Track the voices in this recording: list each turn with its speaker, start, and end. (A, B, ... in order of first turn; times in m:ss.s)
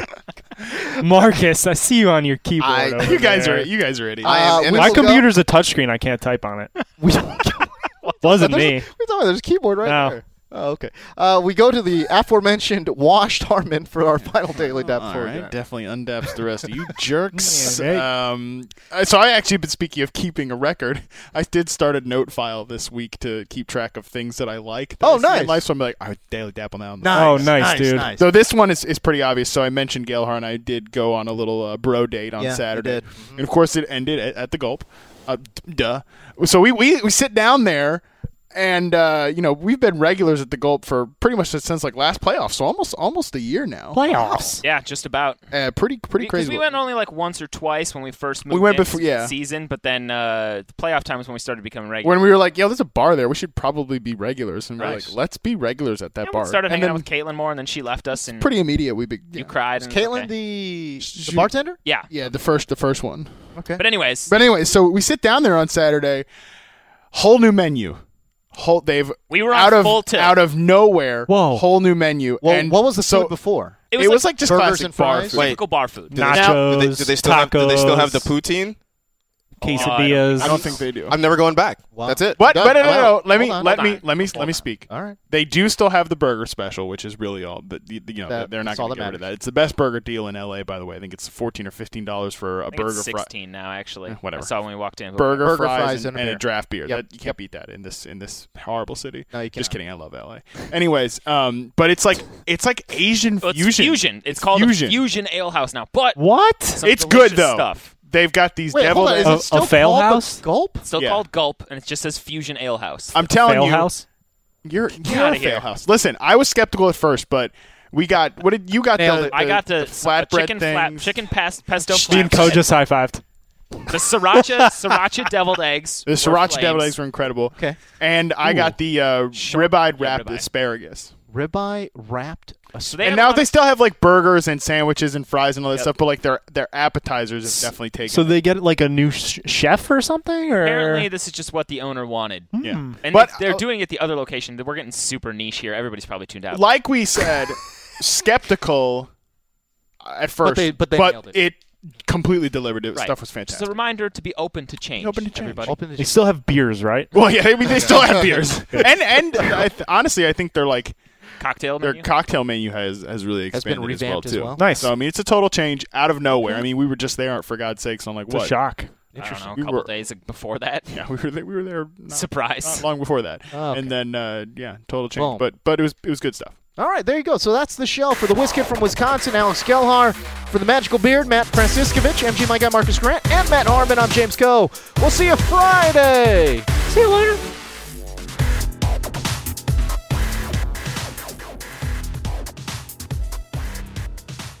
0:00.8-0:03.7 A
0:02.6-0:03.2 B
0:03.0-0:04.6 C
0:04.2-0:05.3 D
0:04.2-0:05.2 B
0:04.6-0:06.7 A
0:07.0-0:15.5 D
0:08.2-0:08.9 A
0:09.8-0:10.2 A
0:14.6-0:44.5 C
0:17.4-0:18.1 A
0:25.0-0:25.6 D
0:27.0-0:28.3 D
0:27.1-0:28.1 A
0:32.4-0:33.5 D
0:43.9-0:44.6 A
0:44.6-0:45.4 E
0:45.5-0:46.6 C
0:46.2-0:52.2 E
0:48.5-0:49.3 C
0:52.0-0:57.0 C
0:54.8-0:55.1 D
0:56.2-0:58.5 E
0:58.4-0:59.5 C
0:59.4-1:00.3 E
0:59.8-1:01.8 D
1:01.0-1:01.5 C
1:02.1-1:03.3 C
1:03.5-1:03.8 D
1:03.8-1:04.3 E
1:04.3-1:06.2 C
1:07.1-1:08.0 C
1:08.5-1:13.3 C
1:09.3-1:10.4 E
1:11.3-1:11.6 A
1:12.4-1:13.9 D
1:13.9-1:14.3 E
1:13.9-1:15.6 C
1:14.4-1:15.4 D
1:15.3-1:16.5 E
1:15.3-1:18.8 B
1:16.1-1:18.3 A
1:19.6-1:20.6 E
1:19.6-1:20.6 A
1:19.7-1:21.2 C
1:21.1-1:23.1 B
1:21.9-1:23.9 D
1:22.4-1:33.3 C
1:23.6-1:24.6 E
1:24.9-1:25.2 D
1:28.3-1:29.2 D
1:32.7-1:35.5 E
1:34.1-1:34.5 C
1:35.2-1:45.0 C
1:35.4-1:37.3 D
1:39.3-1:39.8 D
1:43.4-1:46.2 E
1:46.2-1:46.8 A
1:46.7-1:47.9 E
1:46.8-1:49.5 C
1:48.7-1:50.8 D
1:49.2-1:50.4 A
1:50.8-1:53.1 E
1:51.0-1:51.2 C
1:53.1-1:53.9 C
1:53.4-1:54.0 A
1:54.6-2:01.1 C
1:55.0-1:55.6 E
1:58.9-1:59.6 D
1:59.3-2:02.6 E
2:01.9-2:03.2 A
2:02.0-2:02.6 C
2:03.9-2:06.9 E
2:06.0-2:11.1 C
2:08.4-2:08.7 A
2:09.3-2:10.4 E
2:11.3-2:13.0 D
2:12.8-2:13.5 E
2:13.0-2:18.4 C
2:18.0-2:21.1 A
2:20.6-2:22.5 E
2:22.5-2:23.0 A
2:22.6-2:23.6 C
2:23.0-2:26.8 E
2:26.5-2:29.1 C
2:30.0-2:33.7 C
2:30.4-2:31.4 D
2:32.9-2:35.8 E
2:35.0-2:35.8 C
2:35.6-2:36.2 D
2:36.0-2:37.1 A
2:37.1-2:41.0 C
2:41.4-2:42.0 E
2:41.8-2:48.6 C
2:43.5-2:44.6 D
2:44.6-2:44.9 A
2:48.3-2:48.9 A
2:49.1-2:50.9 E
2:49.2-2:49.9 C
2:50.9-2:56.5 C
2:52.1-2:52.8 E
2:53.5-2:53.9 D
2:55.2-2:55.4 D
2:56.8-3:07.0 D